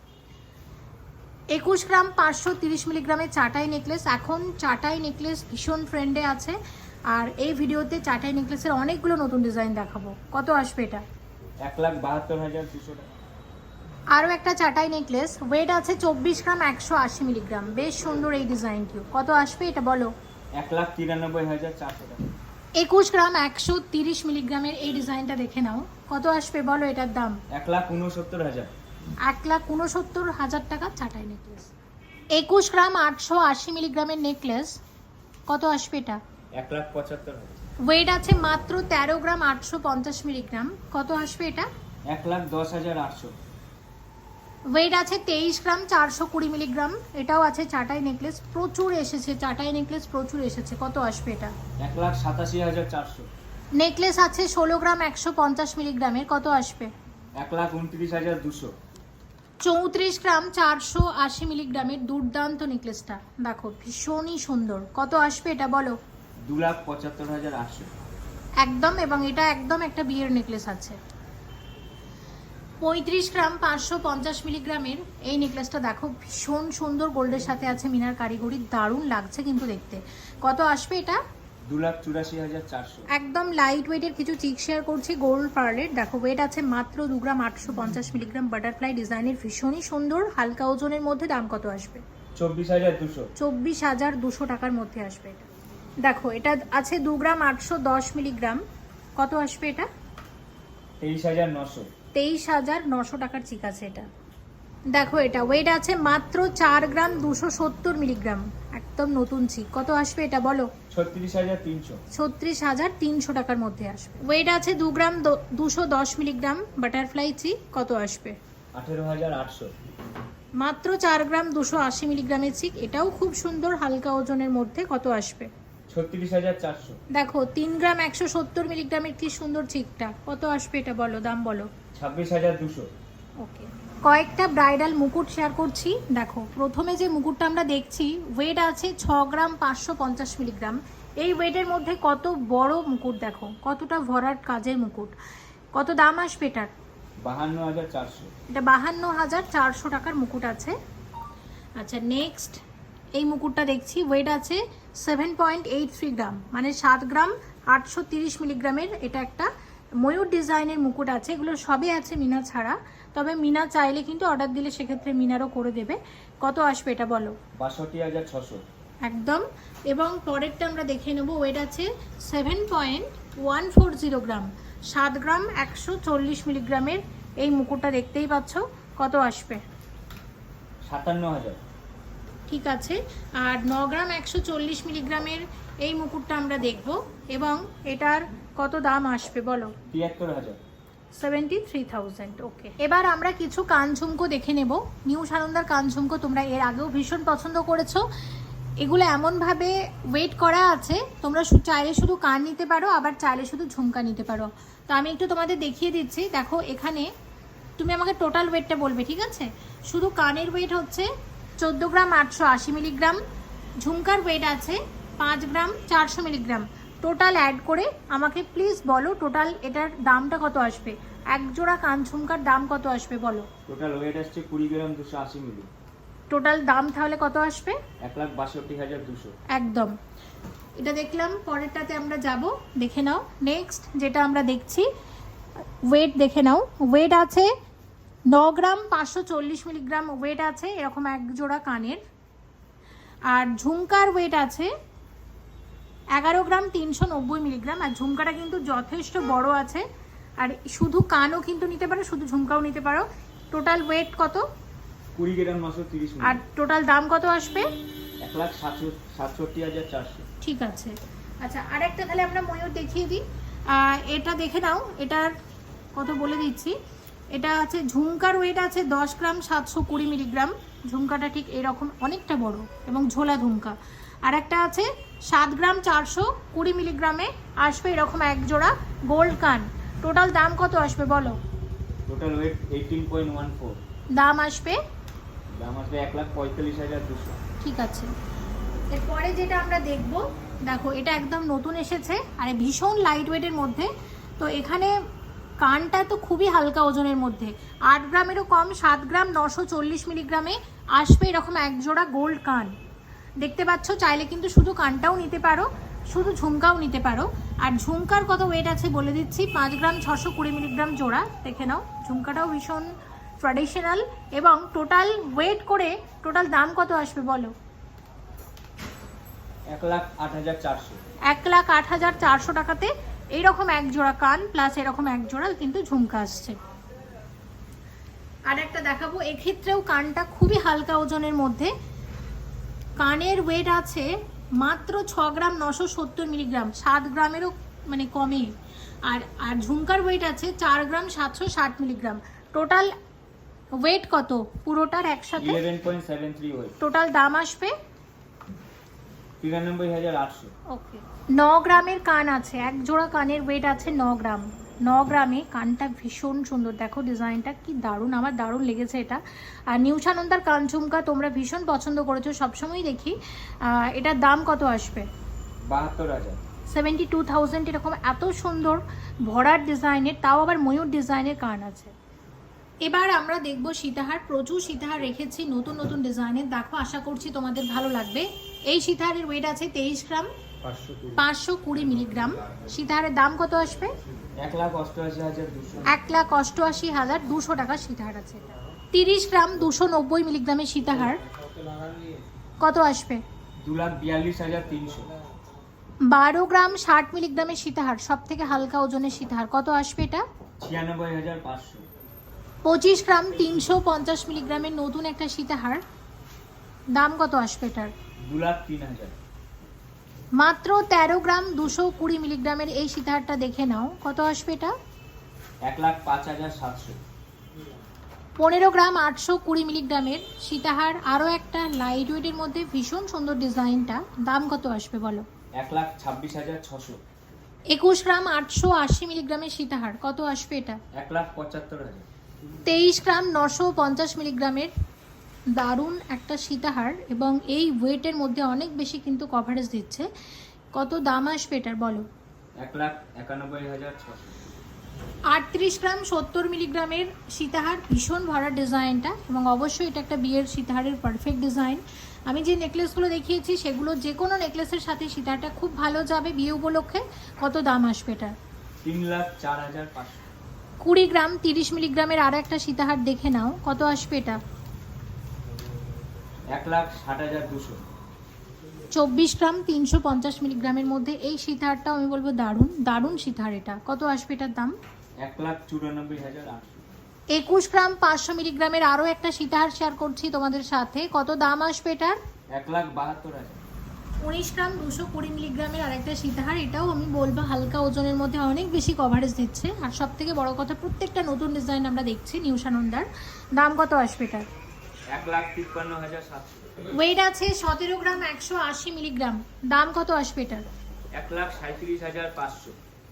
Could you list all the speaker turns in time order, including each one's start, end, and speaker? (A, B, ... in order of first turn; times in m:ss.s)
0:01.5-0:06.6 A
0:07.1-0:11.0 A
0:11.6-0:13.2 B
0:14.1-0:20.1 A
0:20.6-0:22.4 B
0:22.8-0:27.4 A
0:27.5-0:28.7 B
0:29.2-0:31.7 A
0:32.3-0:34.8 A
0:35.5-0:36.2 A
0:36.6-0:37.6 B
0:37.8-0:41.7 A
0:42.1-0:43.3 B
0:44.7-0:51.5 A
0:51.8-0:53.3 B
0:53.8-0:56.9 A
0:57.4-0:58.7 B
0:59.6-1:06.0 A
1:06.4-1:07.9 B
1:08.6-1:11.0 A
1:12.8-1:21.2 A
1:21.7-1:23.1 B
1:23.1-1:32.0 A
1:32.4-1:33.3 B
1:33.4-1:35.5 A
1:36.0-1:38.6 A
1:39.2-1:39.9 A
1:41.0-1:41.9 B
1:42.1-1:44.1 A
1:44.9-1:50.7 A
1:50.9-1:52.0 B
1:52.1-1:58.4 A
1:58.7-1:59.7 B
2:00.6-2:05.5 A
2:05.9-2:07.0 B
2:07.1-2:11.7 A
2:11.9-2:12.9 B
2:13.4-2:25.1 A
2:25.7-2:26.7 A
2:27.2-2:28.3 B
2:28.5-2:30.8 A
2:31.8-2:32.6 A
2:33.1-2:47.4 A
2:47.6-2:48.6 B
2:49.0-2:59.6 A
3:00.8-3:01.6 B
3:02.5-3:09.7 A
3:09.9-3:10.6 B
3:11.1-3:18.0 A
3:18.8-3:27.1 A
3:27.8-3:33.2 A
3:33.8-3:43.5 A
3:43.7-3:45.7 B
3:46.3-3:47.8 A
3:48.0-3:49.4 B
3:49.5-3:50.0 A
3:50.8-3:54.9 A
3:55.9-3:57.5 A
3:58.3-4:02.0 A
4:03.3-4:04.7 A
4:06.1-4:09.8 A
4:10.4-4:14.4 A
4:15.1-4:16.4 B
4:16.2-4:17.7 A
4:18.2-4:20.2 B
4:20.4-4:25.3 A
4:25.9-4:26.8 A
4:27.3-4:41.4 A
4:42.1-4:43.8 B
4:44.1-4:44.8 A
4:45.6-4:47.4 B
4:47.6-4:48.1 A
4:48.9-4:55.0 A
4:55.6-5:02.8 A
5:03.4-5:17.5 A
5:19.7-5:21.0 B
5:21.3-5:26.6 A
5:28.5-5:31.7 A
5:33.0-5:42.9 A
5:43.8-5:45.6 A
5:45.4-5:46.8 B
5:46.8-5:47.7 A
5:49.4-5:50.5 B
5:50.7-6:05.1 A
6:05.7-6:06.4 B
6:06.7-6:11.9 A
6:12.8-6:20.3 A
6:20.8-6:21.1 B
6:21.1-6:23.9 A
6:24.4-6:25.9 B
6:25.9-6:31.2 A
6:32.6-6:33.2 A
6:33.6-6:35.2 B
6:36.0-6:40.2 A
6:40.6-6:41.8 B
6:42.6-6:45.8 A
6:46.9-6:47.9 A
6:48.2-6:49.2 B
6:50.4-6:54.7 A
6:55.6-6:57.0 B
6:58.4-7:05.2 A
7:05.6-7:07.0 B
7:07.7-7:10.8 A
7:10.9-7:12.1 B
7:12.6-7:14.7 A
7:15.5-7:20.1 A
7:20.7-7:22.0 A
7:22.6-7:24.5 B
7:25.3-7:38.4 A
7:38.8-7:40.3 B
7:40.8-7:44.4 A
7:46.5-7:47.8 B
7:48.9-7:54.8 A
7:55.2-7:57.0 B
7:57.3-8:02.2 A
8:02.5-8:03.6 B
8:04.2-8:14.5 A
8:15.1-8:16.8 B
8:16.9-8:20.6 A
8:21.1-8:22.8 B